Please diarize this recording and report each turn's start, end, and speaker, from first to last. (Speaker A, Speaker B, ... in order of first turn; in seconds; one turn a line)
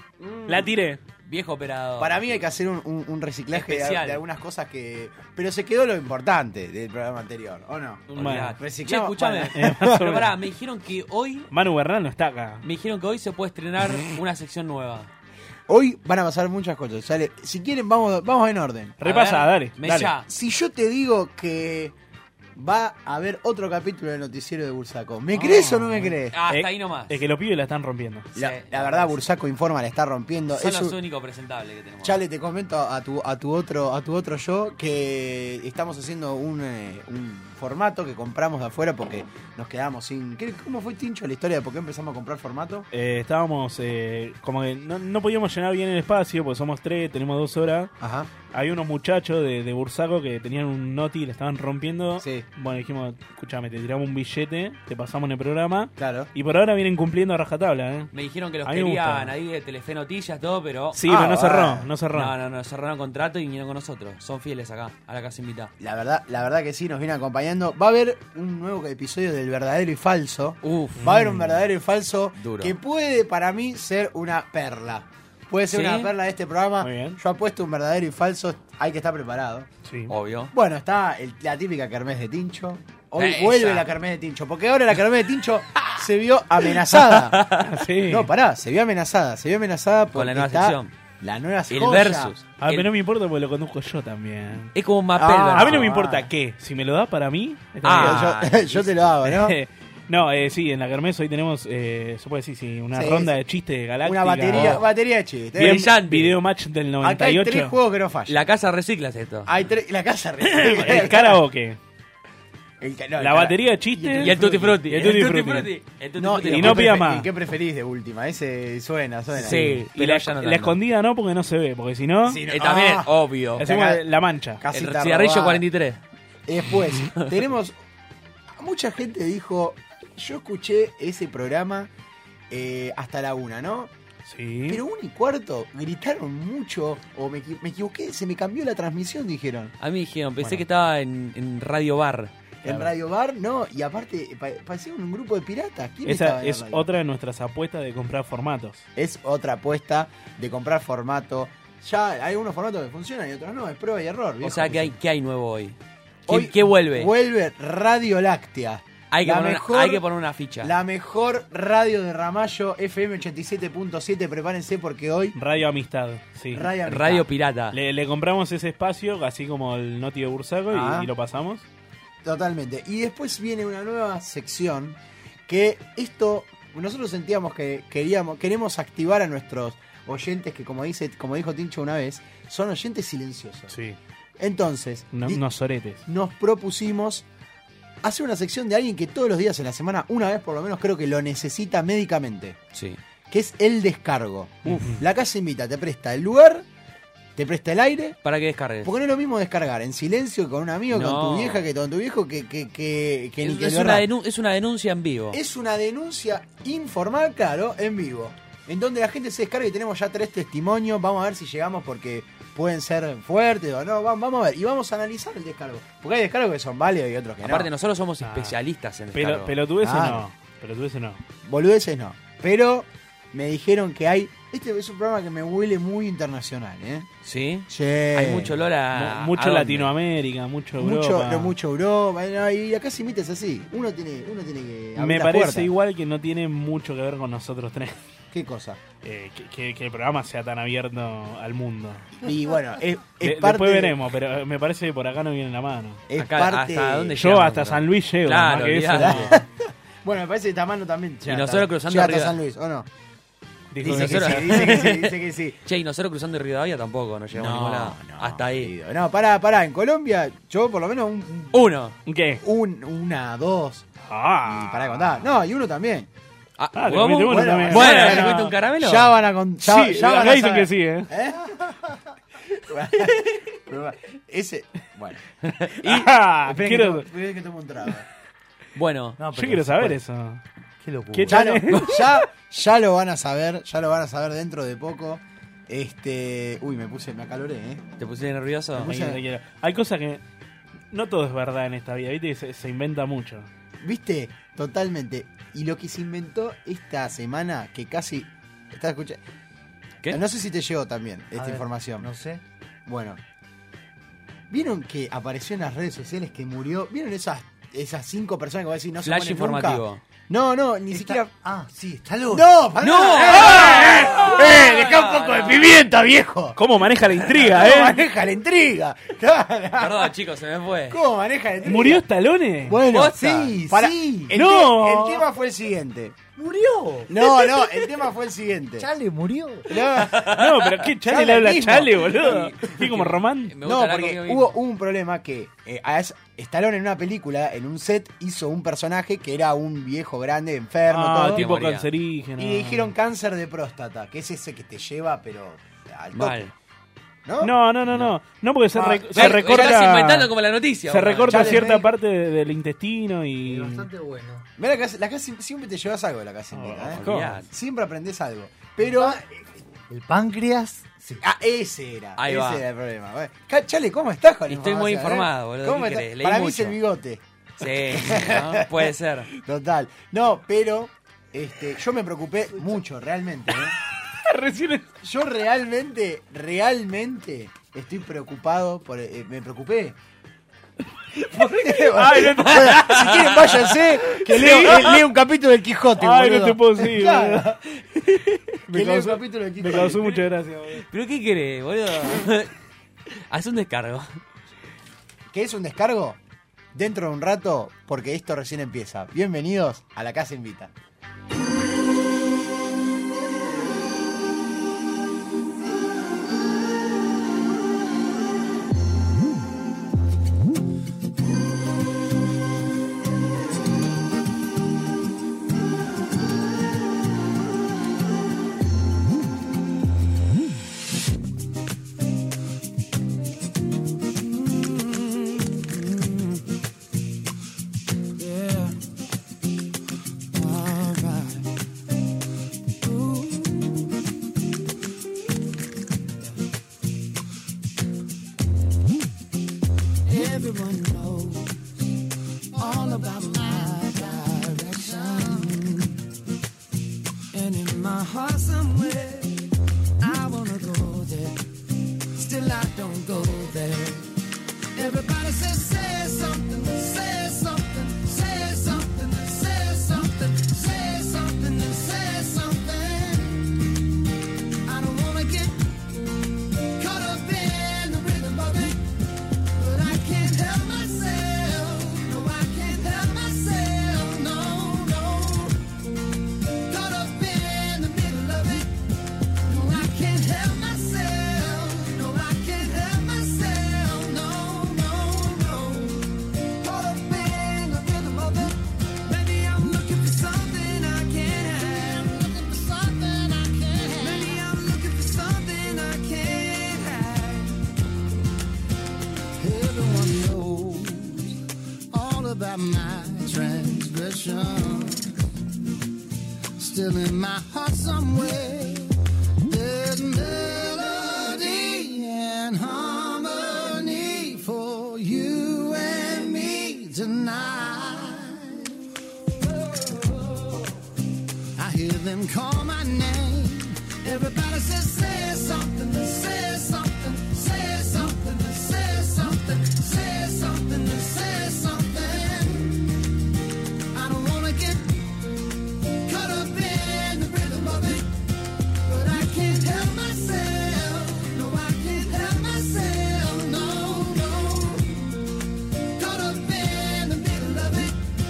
Speaker A: 0.2-0.7
Speaker B: 0.5-1.0
Speaker C: 1.2-2.4
Speaker A: 2.0-8.1
Speaker C: 3.5-4.2
Speaker C: 8.1-11.5
Speaker B: 8.1-8.6
Speaker A: 8.6-10.1
Speaker B: 9.5-10.3
Speaker B: 11.5-12.6
Speaker C: 12.6-15.1
Speaker A: 15.7-19.0
Speaker B: 19.0-20.1
Speaker C: 19.0-20.2
Speaker A: 20.3-21.9
Speaker A: 22.6-26.4
Speaker C: 25.3-27.2
Speaker B: 25.9-28.3
Speaker C: 28.3-29.2
Speaker A: 28.3-30.9
Speaker C: 30.5-32.2
Speaker A: 32.0-42.9
Speaker B: 42.9-47.9
Speaker A: 48.0-48.3
Speaker B: 48.5-58.1
Speaker A: 56.0-56.3
Speaker C: 58.1-61.0
Speaker B: 58.6-59.3
Speaker B: 60.9-62.3
Speaker A: 61.0-61.9
Speaker C: 62.1-65.7
Speaker A: 65.8-79.7
Speaker C: 70.6-71.0
Speaker B: 71.0-71.6
Speaker C: 72.4-72.8
Speaker C: 75.7-76.1
Speaker B: 76.8-77.2
Speaker B: 79.8-80.1
Speaker C: 80.1-80.5
Speaker A: 80.5-87.5
Speaker C: 83.2-83.9
Speaker C: 86.8-87.7
Speaker B: 87.6-88.3
Speaker A: 88.1-92.3
Speaker C: 90.1-90.9
Speaker C: 91.7-92.9
Speaker B: 92.6-94.7
Speaker C: 94.8-95.9
Speaker A: 95.2-96.3
Speaker B: 95.5-98.3
Speaker C: 97.8-98.9
Speaker A: 97.9-99.5
Speaker B: 99.2-104.9
Speaker A: 102.9-103.4
Speaker A: 104.0-105.9
Speaker C: 104.5-104.9
Speaker C: 105.6-106.3
Speaker B: 105.6-107.8
Speaker A: 107.0-108.5
Speaker C: 108.3-109.5
Speaker A: 109.5-111.4
Speaker B: 110.4-111.8
Speaker A: 112.8-114.8
Speaker B: 113.2-115.7
Speaker C: 114.2-117.1
Speaker A: 116.2-119.8
Speaker B: 116.4-117.3
Speaker C: 119.3-120.8
Speaker B: 119.4-122.4
Speaker A: 122.2-124.0
Speaker C: 122.5-123.6
Speaker B: 123.6-124.6
Speaker A: 124.6-125.6
Speaker C: 124.7-126.0
Speaker A: 126.5-127.8
Speaker A: 128.6-131.9
Speaker A: 132.5-133.9
Speaker B: 134.2-134.8
Speaker A: 134.7-139.7
Speaker C: 139.8-142.3
Speaker A: 142.6-146.9
Speaker B: 146.1-148.8
Speaker A: 148.9-154.9
Speaker C: 154.4-155.8
Speaker C: 156.3-157.1
Speaker A: 156.3-160.0
Speaker C: 159.1-160.8
Speaker A: 160.6-165.4
Speaker B: 165.3-166.7
Speaker A: 166.5-167.2
Speaker C: 166.8-167.8
Speaker B: 167.7-171.6
Speaker A: 170.7-171.1
Speaker A: 172.2-183.7
Speaker B: 183.7-184.0
Speaker A: 184.4-185.4
Speaker B: 185.1-186.1
Speaker A: 186.1-187.2
Speaker A: 188.0-192.6
Speaker A: 193.3-196.6
Speaker B: 194.7-195.0
Speaker A: 197.4-198.2
Speaker C: 198.2-198.9
Speaker A: 198.8-204.1
Speaker C: 200.9-201.7
Speaker C: 203.4-205.4
Speaker A: 205.3-217.7
Speaker C: 217.4-219.5
Speaker B: 218.2-218.5
Speaker B: 219.1-221.2
Speaker A: 219.8-220.2
Speaker A: 221.4-227.1
Speaker C: 227.2-229.9
Speaker A: 227.7-228.5
Speaker B: 228.9-231.5
Speaker A: 230.8-235.7
Speaker B: 235.0-238.0
Speaker A: 238.3-238.8
Speaker B: 239.0-242.1
Speaker A: 242.2-244.0
Speaker B: 243.2-246.0
Speaker A: 246.1-247.1
Speaker C: 246.2-249.4
Speaker B: 247.2-249.3
Speaker A: 248.9-249.5
Speaker A: 250.0-252.9
Speaker C: 251.2-252.3
Speaker B: 253.7-254.8
Speaker A: 253.8-255.6
Speaker C: 253.8-258.7
Speaker A: 257.3-261.5
Speaker C: 261.5-261.9
Speaker B: 262.1-262.4
Speaker A: 262.4-263.9
Speaker B: 264.1-265.1
Speaker A: 264.4-266.1
Speaker C: 266.6-269.1
Speaker B: 266.8-268.6
Speaker A: 267.2-275.3
Speaker B: 269.6-271.1
Speaker C: 275.8-276.1
Speaker A: 275.9-278.1
Speaker B: 275.9-277.1
Speaker C: 278.8-279.2
Speaker D: 279.2-280.0
Speaker B: 279.3-280.4
Speaker D: 280.8-281.6
Speaker B: 281.1-282.1
Speaker A: 281.3-287.8
Speaker C: 288.0-289.0
Speaker A: 288.8-289.2
Speaker B: 288.8-290.2
Speaker B: 290.9-293.5
Speaker A: 293.8-299.2
Speaker A: 300.1-302.1
Speaker D: 301.4-302.4
Speaker A: 302.9-303.2
Speaker A: 304.5-311.3
Speaker C: 309.0-310.0
Speaker D: 310.9-312.5
Speaker A: 312.3-320.1
Speaker C: 312.8-315.8
Speaker B: 316.6-318.0
Speaker C: 319.8-321.0
Speaker A: 320.9-322.0
Speaker B: 321.6-322.8
Speaker A: 322.6-326.2
Speaker C: 322.9-323.2
Speaker D: 323.1-324.3
Speaker B: 324.3-325.2
Speaker D: 326.4-327.4
Speaker A: 327.1-328.9
Speaker D: 328.8-329.8
Speaker A: 329.7-330.4
Speaker C: 330.0-330.7
Speaker B: 330.1-333.5
Speaker A: 331.0-332.2
Speaker C: 332.1-334.6
Speaker A: 333.6-341.5
Speaker B: 340.9-342.9
Speaker C: 341.2-341.9
Speaker A: 342.4-346.4
Speaker C: 346.1-346.5
Speaker A: 347.2-347.6
Speaker B: 347.4-350.3
Speaker A: 348.7-349.8
Speaker C: 349.1-351.6
Speaker B: 350.9-353.9
Speaker A: 351.3-351.9
Speaker D: 353.4-354.5
Speaker A: 354.6-359.2
Speaker B: 356.5-357.4
Speaker C: 356.7-357.5
Speaker D: 358.8-359.2
Speaker D: 359.9-361.2
Speaker A: 361.2-373.8
Speaker C: 362.2-362.6
Speaker C: 364.5-366.8
Speaker C: 367.6-369.3
Speaker B: 374.1-374.9
Speaker A: 375.0-380.0
Speaker A: 381.1-387.6
Speaker B: 381.8-383.2
Speaker C: 382.6-383.6
Speaker B: 384.1-385.0
Speaker B: 386.0-387.4
Speaker B: 388.1-390.9
Speaker A: 388.7-390.2
Speaker C: 390.9-392.5
Speaker C: 393.3-394.1
Speaker A: 395.3-396.2
Speaker A: 396.7-400.7
Speaker E: 424.5-426.2
Speaker E: 428.2-428.8
Speaker E: 430.4-431.5
Speaker E: 432.8-433.7
Speaker E: 440.1-441.6
Speaker E: 442.5-445.9
Speaker E: 447.3-451.4
Speaker E: 452.1-454.1
Speaker E: 454.8-463.6
Speaker E: 464.6-465.7
Speaker E: 466.8-468.9
Speaker E: 469.6-475.6
Speaker E: 476.7-478.7
Speaker E: 479.5-497.6
Speaker E: 499.4-501.4
Speaker E: 501.9-505.1
Speaker E: 506.6-508.9
Speaker E: 509.5-518.7
Speaker E: 519.7-520.6
Speaker E: 521.6-532.9
Speaker E: 533.9-535.0
Speaker E: 536.0-538.1
Speaker E: 538.9-545.1
Speaker E: 546.0-548.0